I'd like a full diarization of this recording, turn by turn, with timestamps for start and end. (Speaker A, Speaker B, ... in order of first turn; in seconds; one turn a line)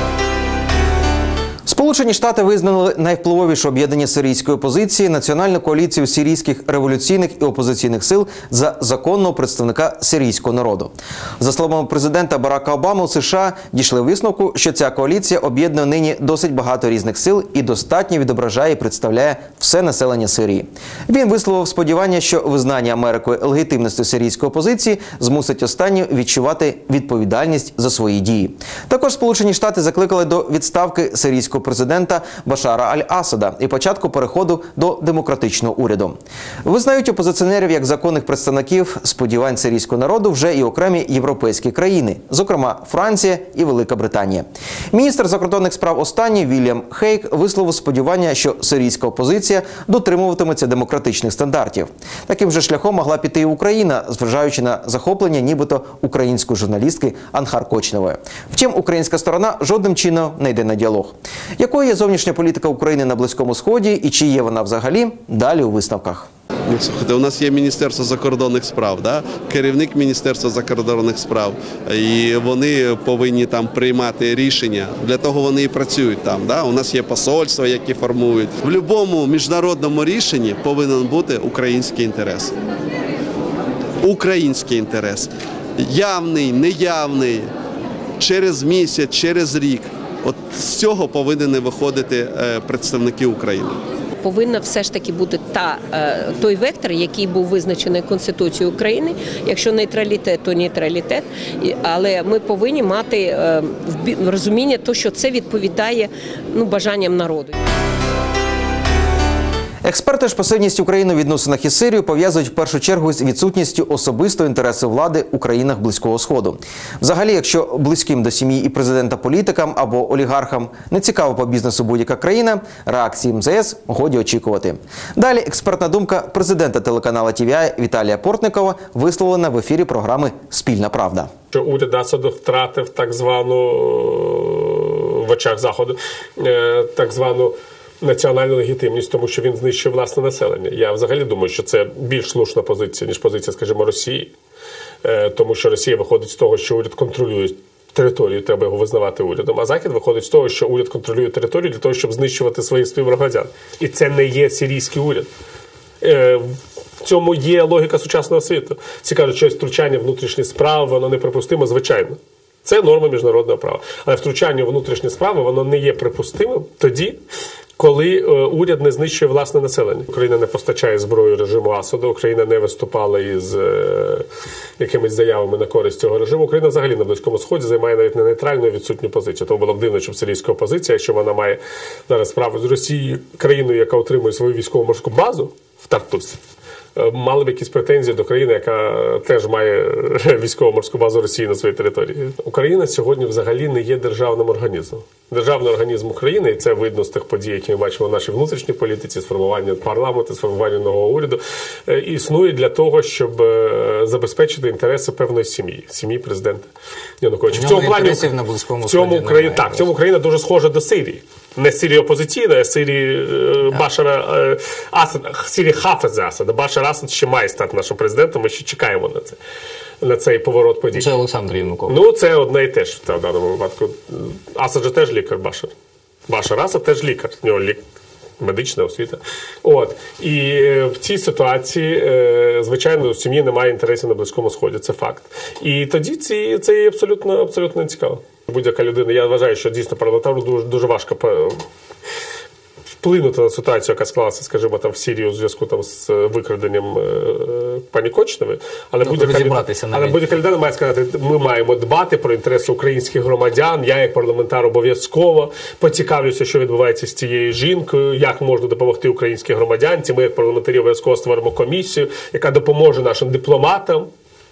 Speaker A: 1.6-66.3
Speaker B: 66.7-82.5
Speaker B: 84.0-87.5
Speaker B: 88.2-93.8
Speaker C: 94.2-107.5
Speaker A: 109.8-131.3
Speaker D: 131.5-144.3
Speaker D: 145.0-155.3
Speaker D: 156.0-167.2
Speaker D: 167.8-174.2
Speaker D: 174.8-186.4
Speaker D: 186.9-206.7
Speaker D: 207.2-219.4
Speaker E: 207.6-209.6
Speaker D: 220.0-221.2
Speaker E: 221.1-221.5
Speaker D: 221.8-225.7
Speaker D: 226.3-227.8
Speaker D: 228.4-241.6
Speaker D: 243.0-264.1
Speaker E: 249.2-250.1